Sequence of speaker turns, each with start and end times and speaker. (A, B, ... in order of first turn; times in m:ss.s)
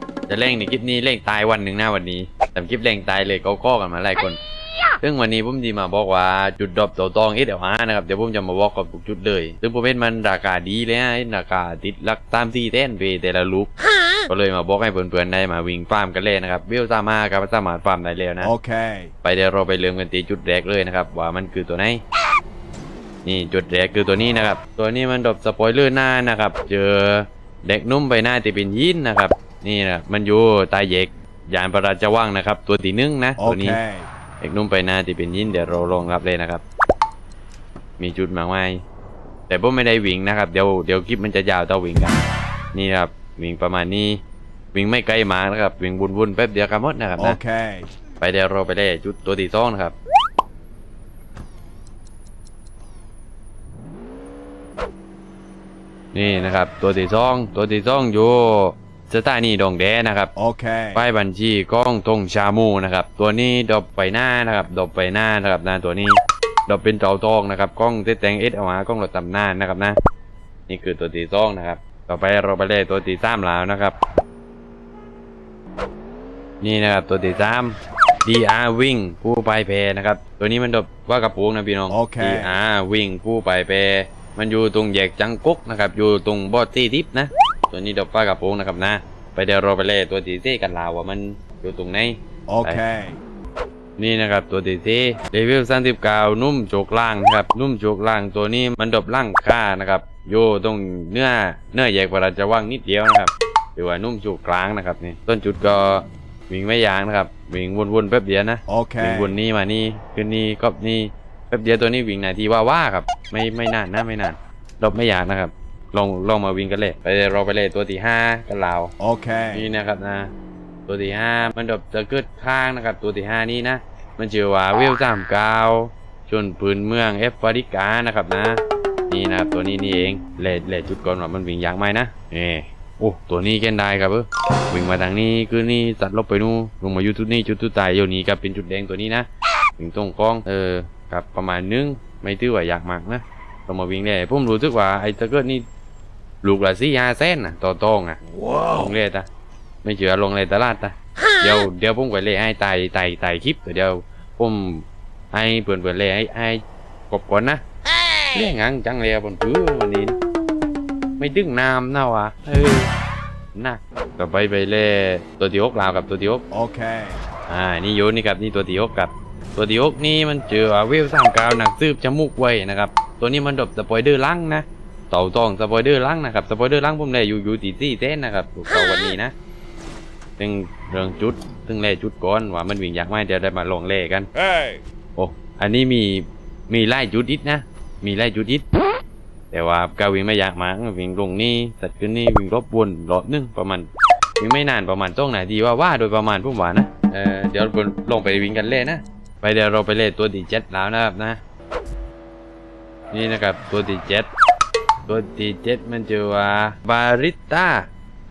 0:00.3-0:04.4 A
0:04.9-0:13.7 A
0:14.3-0:18.5 A
0:18.4-0:19.1 B
0:19.2-0:22.0 A
0:23.2-0:33.8 A
0:33.4-0:34.1 B
0:34.4-0:36.6 A
0:38.0-0:38.8 A
0:39.5-0:42.2 A
0:42.7-0:44.2 A
0:44.7-0:47.4 A
0:47.2-0:47.9 B
0:48.2-0:50.0 A
0:56.1-1:00.3 A
1:00.4-1:01.0 B
1:00.9-1:10.0 A
1:10.7-1:14.0 A
1:16.6-1:32.8 A
1:21.9-1:22.5 B
1:32.5-1:33.2 B
1:34.0-1:58.9 A
1:48.7-1:49.4 B
1:59.0-1:59.6 B
1:59.5-2:00.3 A
2:00.9-2:19.3 A
2:19.8-2:25.7 A
2:26.4-2:29.3 A
2:29.8-2:37.6 A
2:38.3-2:40.2 A
2:41.2-2:42.9 A
2:43.5-2:46.4 A
2:46.5-2:47.2 B
2:47.5-2:59.3 A
3:00.4-3:04.3 A
3:04.4-3:04.8 B
3:05.2-3:08.7 A
3:09.5-3:13.9 A
3:14.4-3:21.4 A
3:23.1-3:24.3 A
3:25.1-3:27.9 A